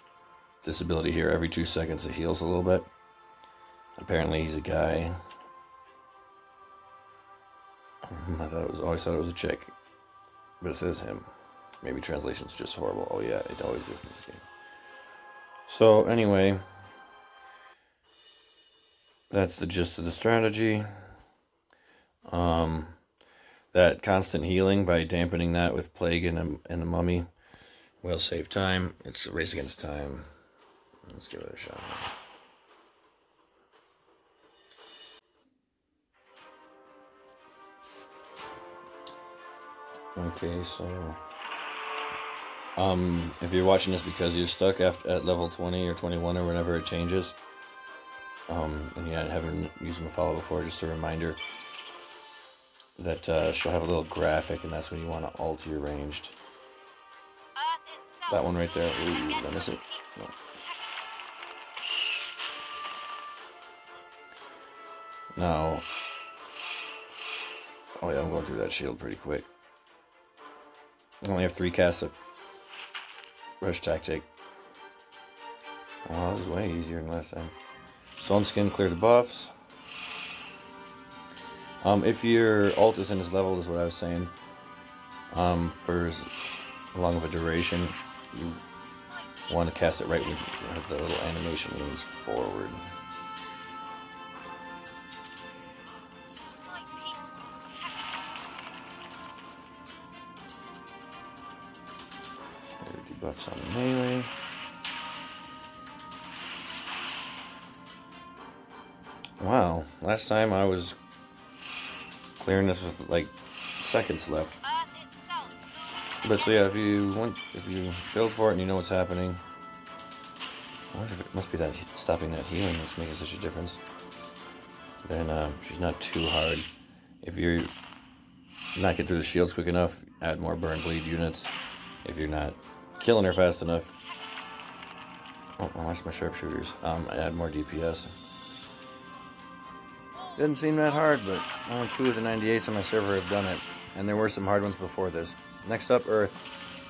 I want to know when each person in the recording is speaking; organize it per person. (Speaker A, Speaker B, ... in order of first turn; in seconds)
Speaker A: 0.6-2.9, 4.0-5.2, 8.0-9.7, 10.6-11.3, 11.8-14.5, 15.7-16.6, 19.3-20.9, 22.3-22.9, 23.7-27.3, 28.0-30.3, 31.1-32.1, 40.1-41.2, 42.8-47.4, 48.5-51.4, 53.0-56.4, 58.3-60.4, 65.3-65.8, 68.0-69.5, 71.2-72.1, 73.6-74.3, 76.0-77.5, 78.2-79.5, 81.8-84.3, 85.3-86.3, 86.9-88.6, 89.5-92.8, 102.8-104.3, 109.4-111.0, 112.4-114.6, 116.2-119.4, 120.9-123.8, 125.0-126.7, 127.2-127.7, 128.7-131.5, 132.0-133.9, 135.6-138.2, 140.3-146.4